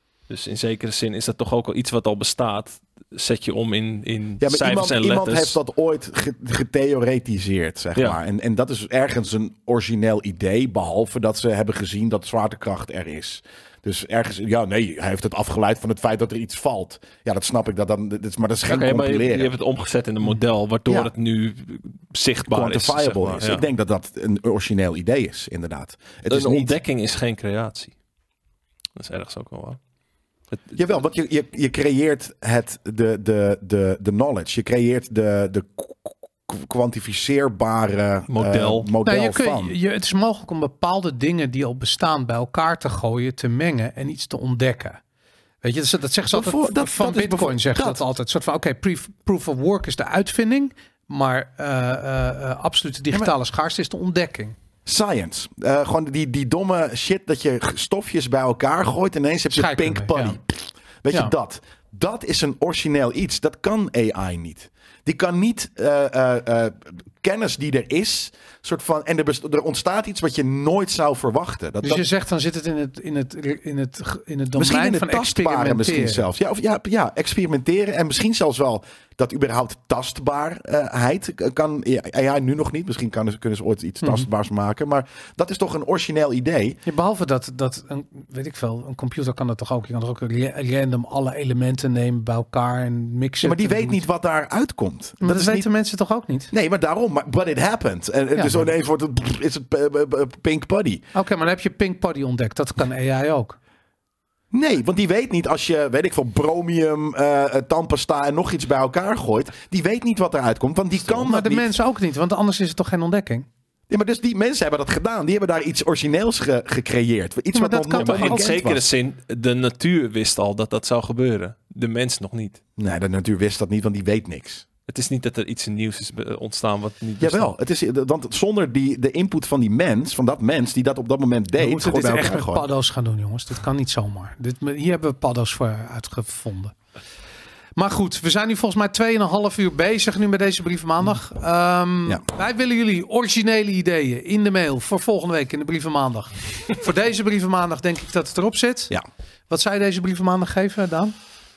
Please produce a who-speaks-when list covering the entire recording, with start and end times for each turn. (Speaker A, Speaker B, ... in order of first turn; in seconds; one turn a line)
Speaker A: 0.3-5.6
Speaker B: 4.4-19.5
Speaker A: 18.6-23.6
Speaker B: 20.9-21.1
Speaker B: 22.4-26.7
Speaker A: 26.3-27.9
Speaker A: 28.9-29.8
Speaker B: 30.7-39.7
Speaker A: 38.3-38.9
Speaker C: 39.0-45.0
Speaker C: 45.6-54.5
Speaker B: 46.3-48.0
Speaker B: 54.8-72.0
Speaker C: 59.5-60.4
Speaker C: 71.8-76.2
Speaker B: 74.5-86.8
Speaker C: 84.0-84.3
Speaker C: 86.8-94.0
Speaker B: 93.4-95.7
Speaker C: 95.2-96.5
Speaker B: 96.5-101.0
Speaker C: 98.3-98.7
Speaker C: 101.1-103.6
Speaker B: 104.5-111.7
Speaker C: 111.0-113.5
Speaker B: 113.9-118.8
Speaker C: 117.5-118.5
Speaker A: 117.9-122.6
Speaker B: 122.8-124.7
Speaker A: 124.9-127.5
Speaker B: 127.2-132.7
Speaker C: 131.6-136.8
Speaker C: 137.8-148.9
Speaker C: 149.5-151.1